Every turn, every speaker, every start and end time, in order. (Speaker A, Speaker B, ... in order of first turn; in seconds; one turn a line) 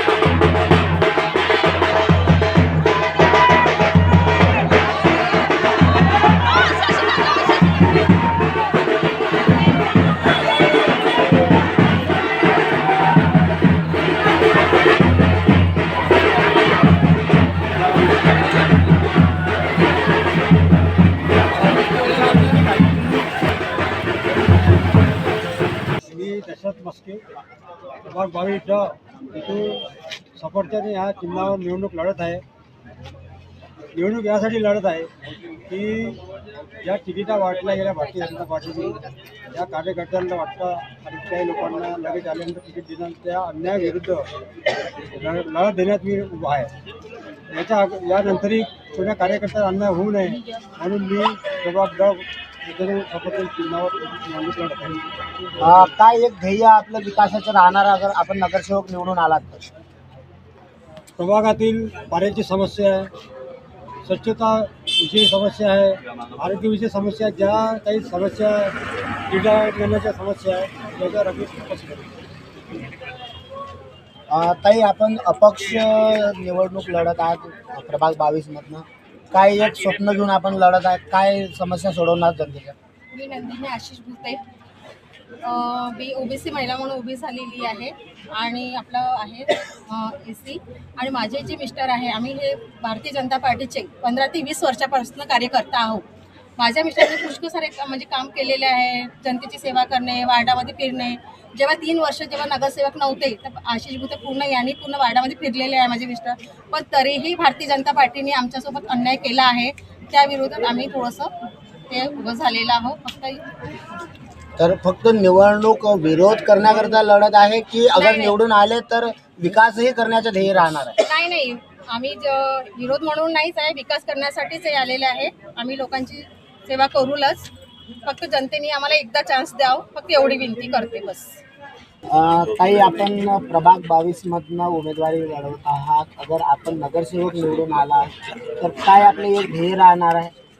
Speaker A: 26.1-27.2
Speaker A: 28.0-32.4
Speaker A: 33.9-35.1
Speaker A: 35.7-36.2
Speaker A: 36.8-44.3
Speaker A: 45.1-46.7
Speaker A: 47.5-55.0
Speaker B: 55.6-59.7
Speaker A: 61.2-63.1
Speaker A: 64.0-68.7
Speaker A: 69.3-72.1
Speaker B: 74.3-82.7
Speaker C: 83.1-84.4
Speaker C: 85.4-96.0
Speaker C: 96.6-111.3
Speaker C: 111.9-113.5
Speaker B: 114.6-121.0
Speaker C: 118.0-118.4
Speaker C: 121.0-127.5
Speaker C: 128.1-131.4
Speaker B: 132.1-140.3